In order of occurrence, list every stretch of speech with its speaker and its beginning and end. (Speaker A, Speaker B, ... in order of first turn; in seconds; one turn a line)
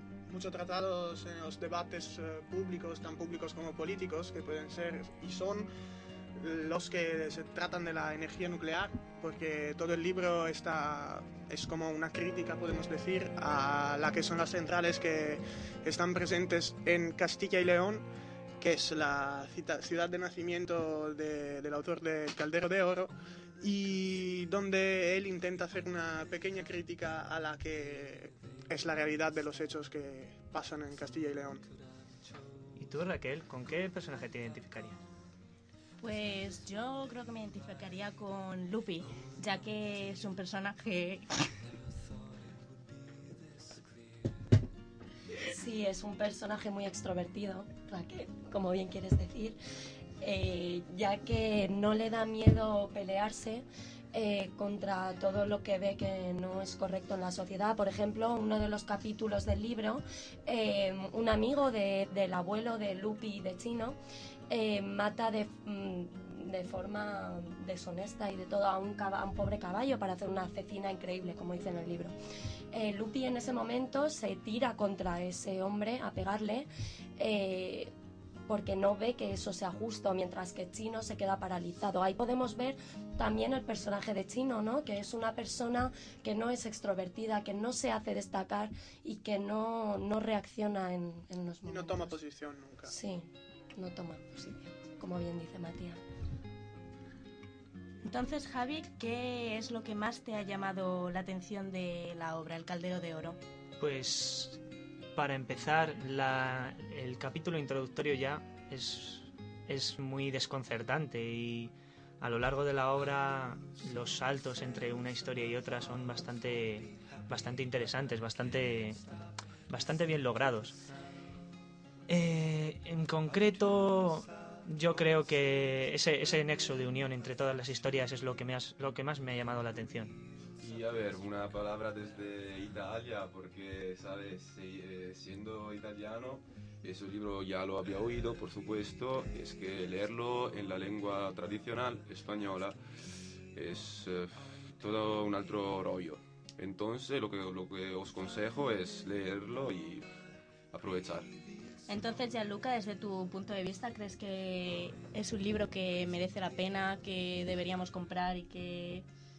Speaker A: 0.2-5.7
Speaker A: 6.4-18.1
Speaker A: 18.6-31.6
Speaker B: 32.8-35.0
Speaker C: 36.0-41.5
Speaker D: 45.4-49.6
Speaker D: 50.2-64.0
Speaker D: 64.5-72.1
Speaker D: 72.7-76.7
Speaker D: 77.2-77.9
Speaker D: 78.5-92.2
Speaker A: 91.6-92.9
Speaker D: 92.9-96.0
Speaker C: 98.0-103.4
Speaker B: 103.8-104.6
Speaker B: 105.2-119.0
Speaker B: 119.7-120.8
Speaker B: 122.1-130.2
Speaker E: 130.6-142.8
Speaker E: 143.5-150.1
Speaker E: 150.7-151.3
Speaker C: 151.9-159.1